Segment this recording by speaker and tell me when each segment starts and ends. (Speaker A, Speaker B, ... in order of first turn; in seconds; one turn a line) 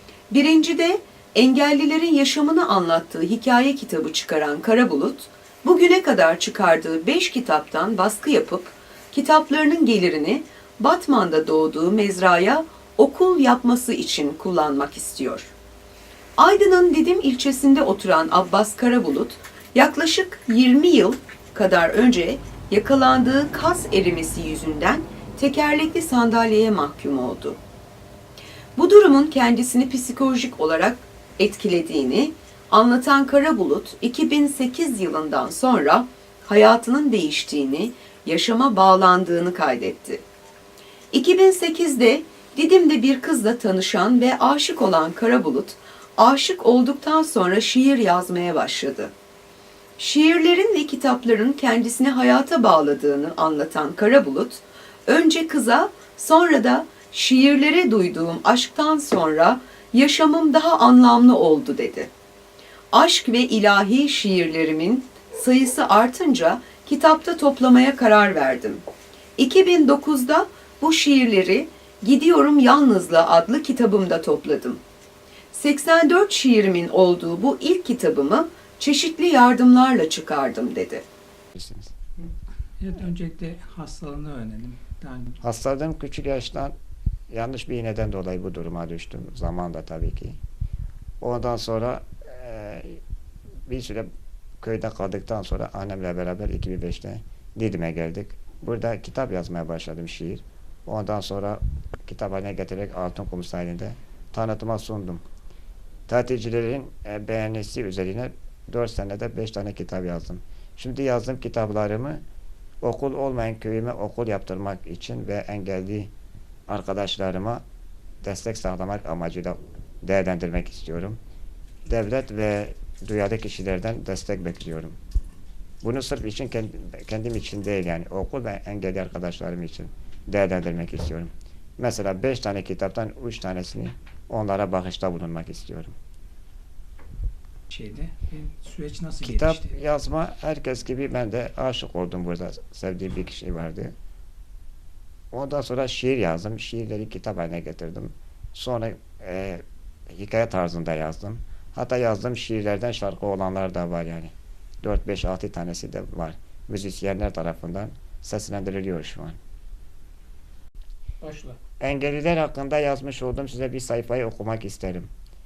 Speaker A: 0.3-15.5
Speaker A: 16.4-27.6
Speaker A: 28.8-40.2
Speaker A: 41.1-49.1
Speaker A: 50.0-62.1
Speaker A: 62.9-68.8
Speaker A: 69.4-74.8
Speaker A: 75.5-81.0
Speaker B: 81.5-81.9
Speaker C: 82.8-85.4
Speaker B: 85.4-86.8
Speaker B: 87.3-90.4
Speaker B: 91.2-93.0
Speaker B: 93.7-94.1
Speaker B: 94.6-105.2
Speaker B: 106.1-112.2
Speaker B: 112.8-116.1
Speaker B: 116.7-117.6
Speaker B: 118.2-121.2
Speaker B: 121.9-125.0
Speaker B: 125.8-135.9
Speaker C: 137.7-139.8
Speaker B: 139.2-143.9
Speaker B: 145.3-159.4
Speaker C: 161.2-161.6
Speaker B: 161.8-165.1